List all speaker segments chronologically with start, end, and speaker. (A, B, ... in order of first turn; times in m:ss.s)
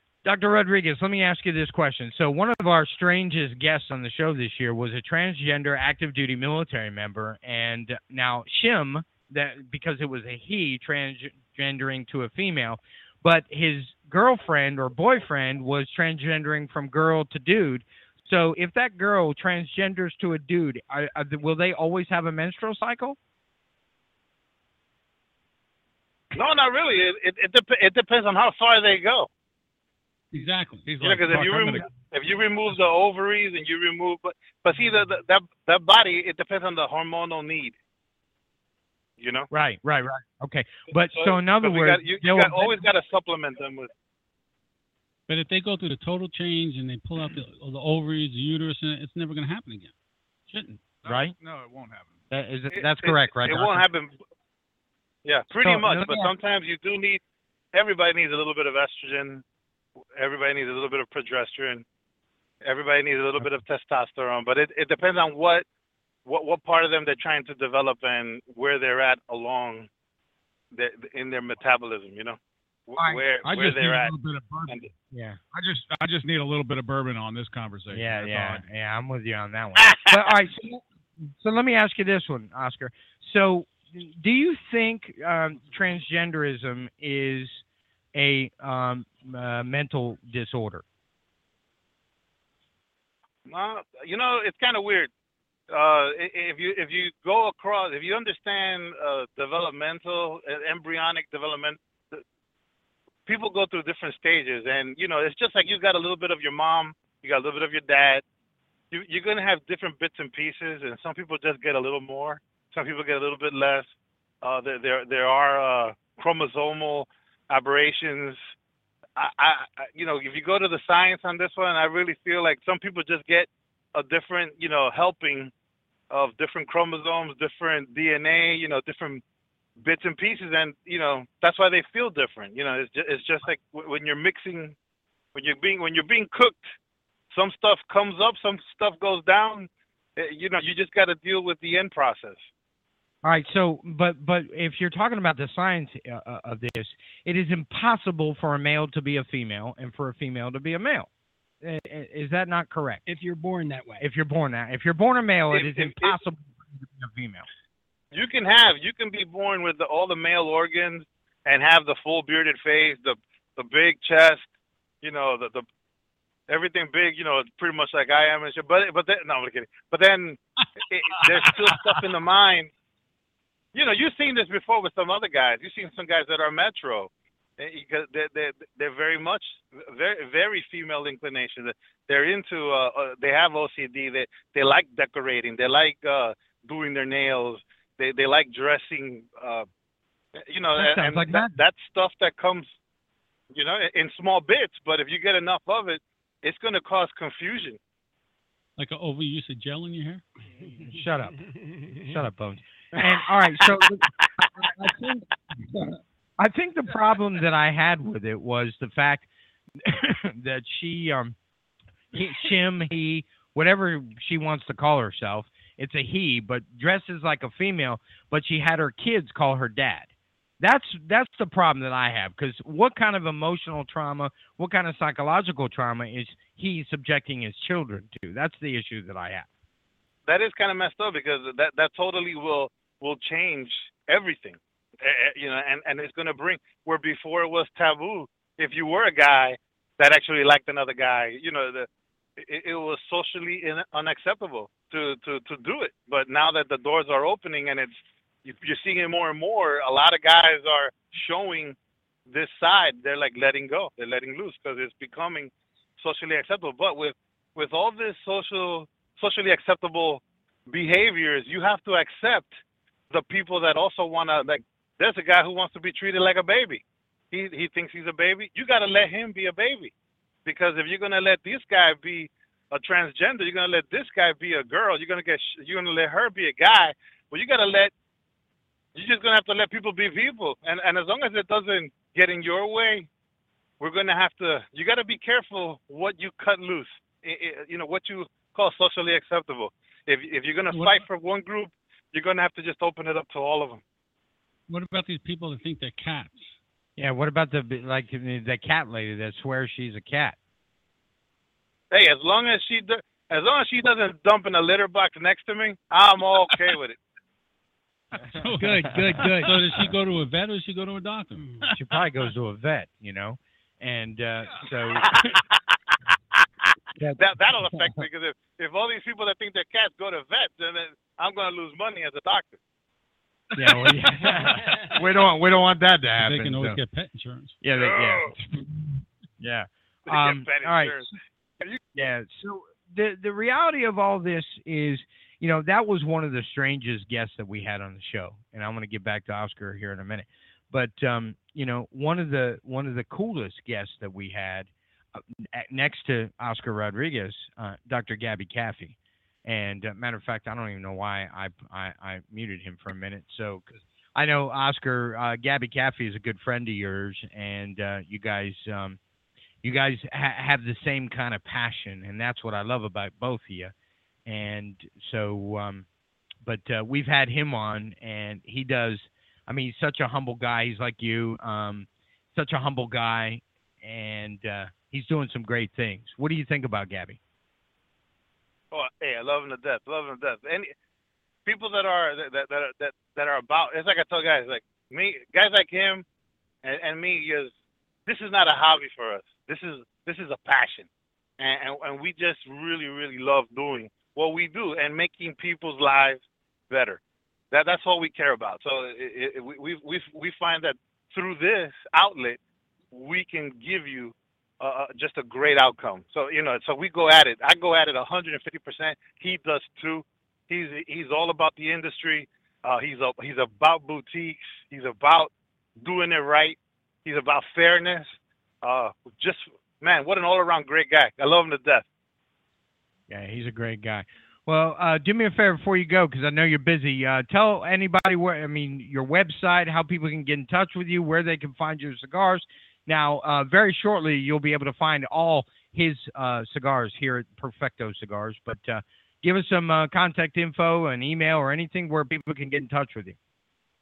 0:00.2-0:23.2 A
0:26.3-0:29.3 B
0:30.3-0:30.9 C
0:30.8-0:31.9 D
0:31.0-0:37.8 B
0:39.2-0:39.5 B
0:39.5-0:42.8 A
0:41.1-0:43.9 B
0:45.3-0:49.9 C
0:50.5-0:50.8 C
0:51.0-0:52.2 D
0:51.1-0:51.4 A
0:52.3-0:53.9 A
0:52.7-0:54.2 B
0:55.2-0:57.2 B
0:55.5-0:56.3 A
0:57.7-0:59.4 B
1:00.2-1:01.8 B
1:02.6-1:05.6 B
1:06.2-1:09.9 B
1:10.7-1:14.2 B
1:13.0-1:13.2 A
1:13.4-1:14.8 D
1:15.1-1:15.4 A
1:15.5-1:18.6 D
1:17.9-1:27.6 A
1:19.8-1:20.3 B
1:28.1-1:30.8 A
1:33.5-1:35.1 B
1:35.7-1:42.2 B
1:43.3-1:48.2 B
1:48.9-1:53.9 B
1:54.4-1:58.4 B
1:59.2-2:05.5 B
2:06.1-2:09.2 B
2:09.8-2:14.8 B
2:15.3-2:16.6 B
2:17.3-2:22.4 B
2:23.2-2:31.1 A
2:31.6-2:33.0 A
2:33.1-2:34.1 E
2:34.0-2:37.5 A
2:35.5-2:36.2 B
2:38.1-2:44.5 B
2:45.0-2:45.6 B
2:46.5-2:52.7 B
2:53.7-3:09.7 B
3:10.4-3:12.7 B
3:10.8-3:11.6 A
3:13.5-3:17.8 B
3:18.8-3:20.2 C
3:20.7-3:21.5 A
3:21.4-3:22.1 E
3:22.0-3:29.3 A
3:29.8-3:31.4 A
3:32.1-3:40.1 A
3:40.6-3:49.5 A
3:50.3-4:11.8 B
4:12.3-4:22.6 B
4:23.1-4:29.9 B
4:30.4-4:37.9 B
4:39.0-4:43.1 B
4:43.8-4:53.8 B
4:50.7-4:51.1 C
4:54.7-4:56.6 C
4:57.0-5:00.4 A
5:01.9-5:07.0 B
5:08.3-5:11.7 C
5:08.6-5:09.6 E
5:11.7-5:15.4 A
5:15.1-5:15.4 B
5:17.2-5:22.6 B
5:23.6-5:26.8 A
5:26.2-5:27.6 C
5:27.6-5:28.7 A
5:27.7-5:28.3 B
5:29.4-5:31.0 A
5:30.1-5:31.8 B
5:32.0-5:59.0 A
5:59.6-6:03.7 A
6:04.3-6:05.9 A
6:06.4-6:17.2 A
6:18.7-6:20.7 B
6:21.5-6:26.0 B
6:26.6-6:27.5 B
6:28.1-6:30.9 B
6:31.4-6:37.0 B
6:37.5-6:42.4 B
6:42.9-7:01.8 B
7:03.1-7:23.2 A